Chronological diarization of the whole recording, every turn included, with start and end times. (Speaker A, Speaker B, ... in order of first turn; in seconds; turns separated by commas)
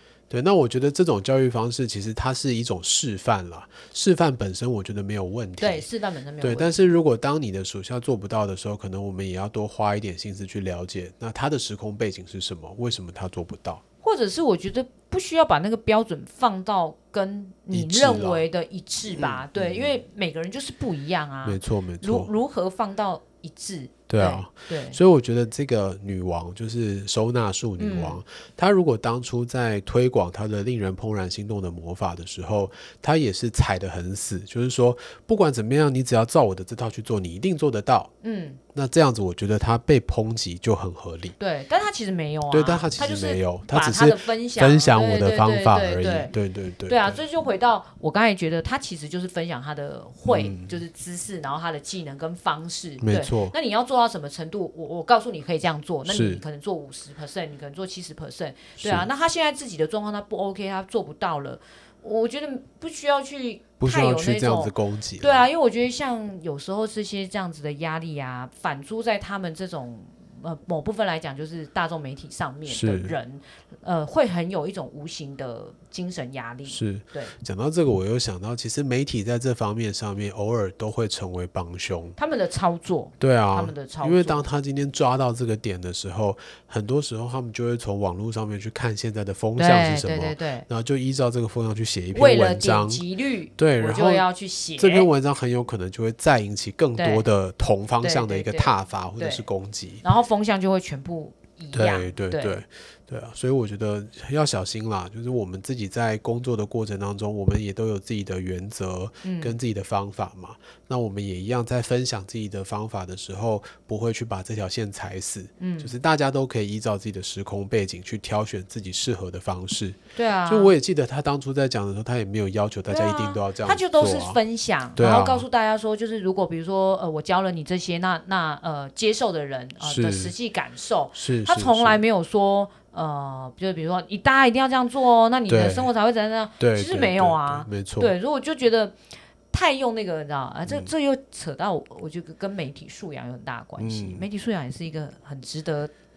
Speaker A: 0.3-5.9, Speaker B: 5.6-6.8, Speaker A: 6.4-13.8, Speaker B: 14.0-25.0, Speaker A: 17.7-18.4, Speaker A: 19.1-19.9, Speaker A: 21.4-22.3, Speaker A: 24.1-38.1, Speaker B: 27.8-28.2, Speaker B: 38.2-38.6, Speaker A: 38.7-41.4, Speaker B: 41.4-46.3, Speaker A: 42.5-47.2, Speaker B: 46.9-77.3, Speaker A: 50.2-50.8, Speaker A: 53.0-53.5, Speaker A: 56.0-56.4, Speaker A: 58.8-59.1, Speaker A: 63.8-65.5, Speaker A: 72.7-73.2, Speaker A: 76.7-82.2, Speaker B: 82.2-84.5, Speaker A: 83.2-93.0, Speaker B: 89.6-90.7, Speaker B: 92.1-95.1, Speaker A: 93.6-94.2, Speaker A: 94.8-100.0, Speaker B: 97.0-97.3, Speaker B: 98.0-99.5, Speaker B: 100.0-102.6, Speaker A: 101.7-124.4, Speaker B: 109.2-109.6, Speaker B: 115.6-115.9, Speaker B: 120.1-120.8, Speaker B: 122.9-139.0, Speaker A: 125.0-125.5, Speaker A: 129.8-130.3, Speaker A: 131.1-132.0, Speaker A: 135.5-135.9, Speaker A: 136.6-138.1, Speaker B: 139.5-145.9, Speaker A: 140.7-140.9, Speaker A: 143.8-144.2